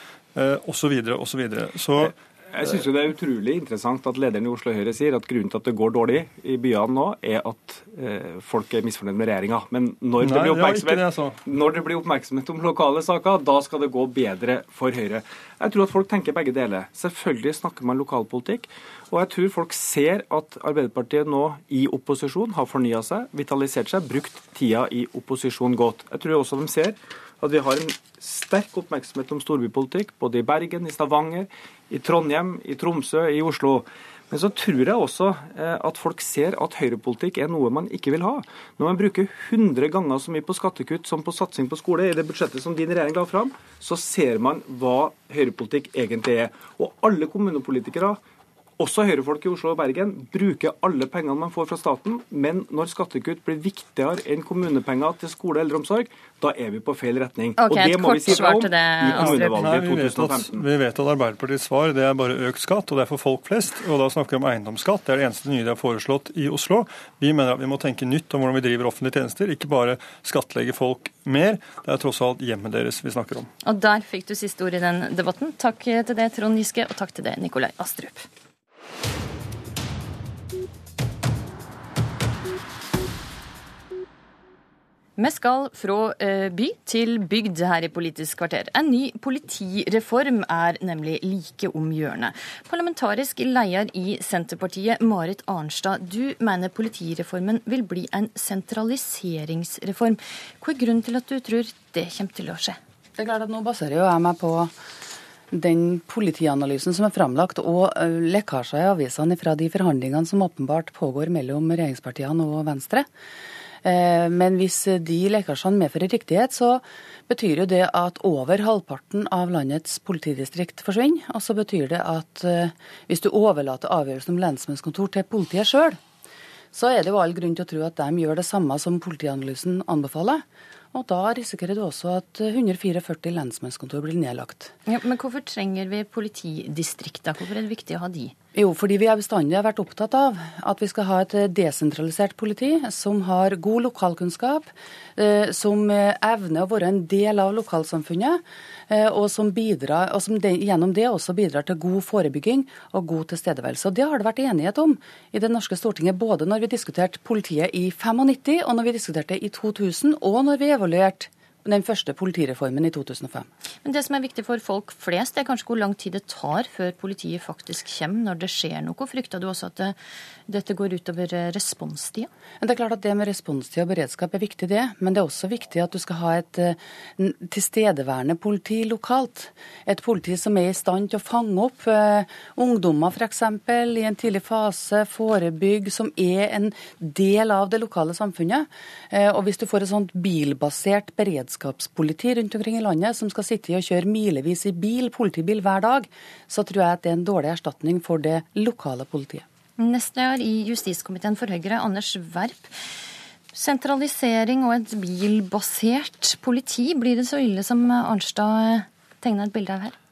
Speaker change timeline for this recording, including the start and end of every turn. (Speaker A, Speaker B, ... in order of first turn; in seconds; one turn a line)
Speaker A: 0.3-2.1
Speaker B: 2.5-48.2
Speaker A: 10.2-11.4
Speaker B: 48.8-60.5
Speaker C: 57.6-59.7
Speaker A: 59.0-73.5
Speaker C: 73.6-78.3
Speaker C: 85.2-102.8
Speaker D: 103.2-104.7
Speaker D: 105.5-113.1
Speaker D: 113.8-126.0
Speaker D: 126.7-134.7
Speaker C: 134.8-138.3
Speaker D: 138.6-163.5
Speaker C: 163.8-172.3
Speaker D: 172.6-199.4
Speaker C: 199.8-202.7
Speaker C: 203.5-209.9